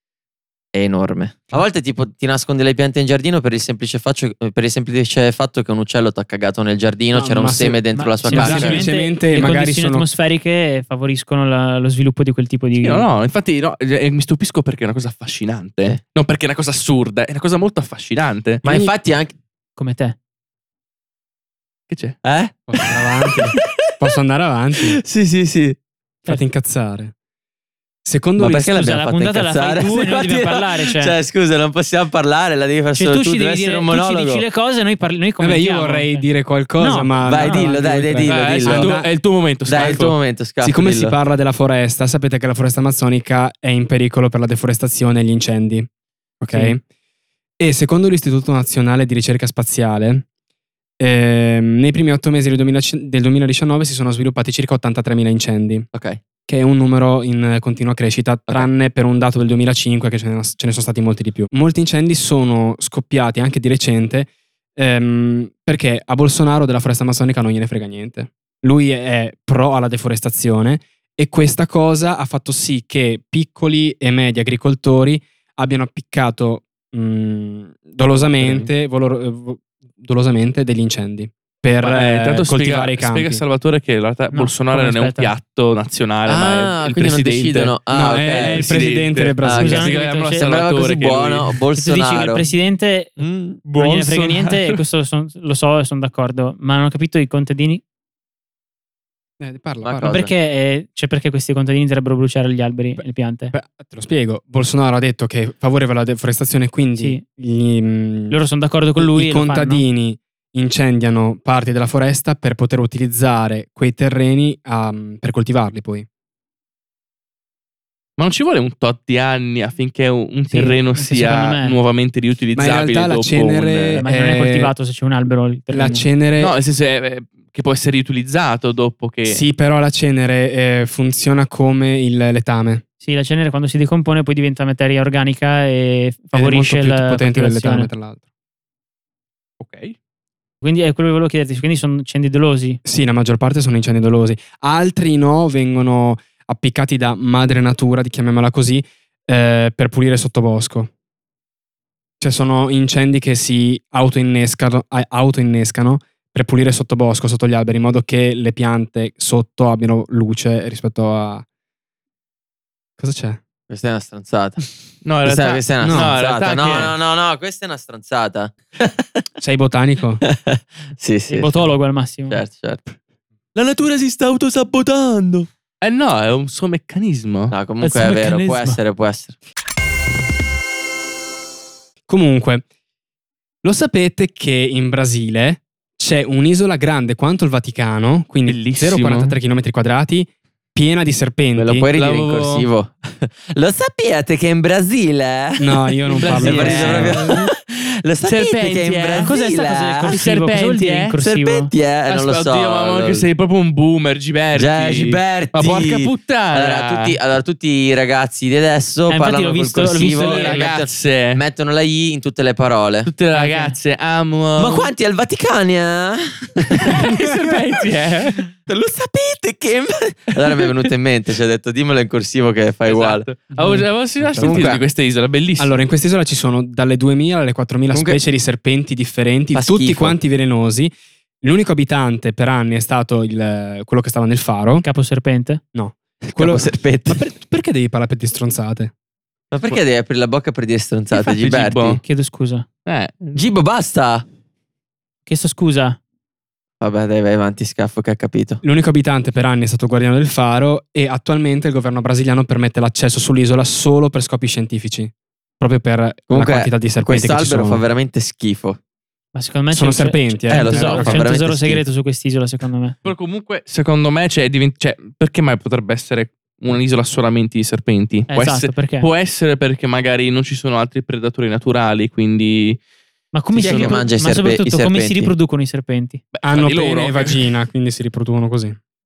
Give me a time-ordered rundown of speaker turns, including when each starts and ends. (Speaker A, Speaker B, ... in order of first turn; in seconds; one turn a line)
Speaker A: 0.7-8.8
Speaker B: 7.1-10.1
Speaker C: 7.9-13.1
Speaker D: 12.8-18.6
Speaker A: 18.6-19.3
Speaker B: 18.6-18.9
Speaker C: 19.8-20.1
Speaker D: 21.9-22.2
Speaker A: 22.2-23.6
Speaker B: 22.7-25.0
Speaker A: 24.9-25.8
Speaker B: 26.3-27.1
Speaker B: 28.0-28.8
Speaker A: 28.4-34.4
Speaker C: 28.6-31.1
Speaker C: 33.0-36.2
Speaker B: 35.4-39.1
Speaker C: 36.8-37.7
Speaker A: 37.2-38.9
Speaker D: 38.2-40.1
Speaker A: 39.7-41.1
Speaker B: 40.6-45.9
Speaker B: 46.4-46.8
Speaker B: 47.6-50.2
Speaker B: 51.0-55.9
Speaker A: 55.9-56.2
Speaker B: 56.5-83.4
Speaker A: 78.3-78.7
Speaker D: 81.8-87.7
Speaker C: 84.3-85.3
Speaker A: 86.3-88.9
Speaker B: 87.9-89.9
Speaker D: 88.3-91.6
Speaker A: 89.4-89.9
Speaker C: 89.5-90.5
Speaker A: 90.4-92.5
Speaker C: 91.8-93.2
Speaker A: 93.2-93.6
Speaker D: 93.7-94.8
Speaker C: 93.7-97.8
Speaker B: 99.4-100.2
Speaker A: 99.8-100.3
Speaker C: 100.0-103.5
Speaker B: 103.0-108.4
Speaker C: 107.0-107.2
Speaker C: 108.3-109.8
Speaker B: 109.0-116.1
Speaker D: 118.2-124.0
Speaker C: 120.5-121.8
Speaker B: 122.5-124.7
Speaker C: 123.9-126.1
Speaker B: 125.7-126.5
Speaker D: 126.4-129.4
Speaker B: 129.2-132.8
Speaker C: 133.0-137.9
Speaker B: 136.3-138.2
Speaker D: 139.6-139.9
Speaker C: 140.6-142.8
Speaker B: 142.8-150.9
Speaker B: 152.2-161.4
Speaker B: 163.0-163.4
Speaker A: 163.7-164.6
Speaker D: 165.0-166.9
Speaker A: 165.2-169.2
Speaker B: 165.8-166.2
Speaker B: 169.4-170.2
Speaker A: 170.2-171.7
Speaker C: 171.3-172.4
Speaker A: 172.3-172.9
Speaker A: 173.5-175.4
Speaker D: 175.8-177.6
Speaker A: 177.5-179.3
Speaker C: 177.8-178.8
Speaker B: 182.1-182.6
Speaker B: 183.6-191.8
Speaker D: 188.4-189.3
Speaker A: 191.5-200.2
Speaker D: 191.9-192.7
Speaker B: 195.6-197.3
Speaker D: 196.1-197.3
Speaker D: 198.2-199.3
Speaker C: 199.2-201.7
Speaker D: 200.0-201.1
Speaker A: 201.2-203.2
Speaker D: 202.1-207.1
Speaker A: 204.5-213.1
Speaker C: 209.1-210.8
Speaker D: 209.9-211.4
Speaker D: 213.1-214.9
Speaker C: 213.3-213.8
Speaker A: 214.6-217.1
Speaker D: 216.7-218.5
Speaker A: 218.6-223.3
Speaker D: 222.8-225.8
Speaker C: 223.6-223.8
Speaker B: 224.2-224.7
Speaker A: 224.4-224.8
Speaker B: 225.6-234.8
Speaker A: 227.9-228.2
Speaker A: 229.5-230.2
Speaker C: 234.8-235.6
Speaker B: 235.7-238.9
Speaker A: 236.2-237.2
Speaker A: 239.5-242.0
Speaker D: 241.1-242.0
Speaker C: 242.0-242.7
Speaker D: 242.8-243.2
Speaker A: 243.3-244.2
Speaker C: 245.3-246.0
Speaker A: 246.8-248.6
Speaker B: 248.6-257.8
Speaker A: 256.3-258.8
Speaker C: 259.3-263.0
Speaker B: 259.7-261.2
Speaker A: 260.5-261.8
Speaker D: 263.0-272.8
Speaker C: 268.3-269.1
Speaker C: 273.3-276.2
Speaker A: 273.6-275.3
Speaker B: 273.6-274.0
Speaker D: 276.3-277.4
Speaker B: 276.4-278.8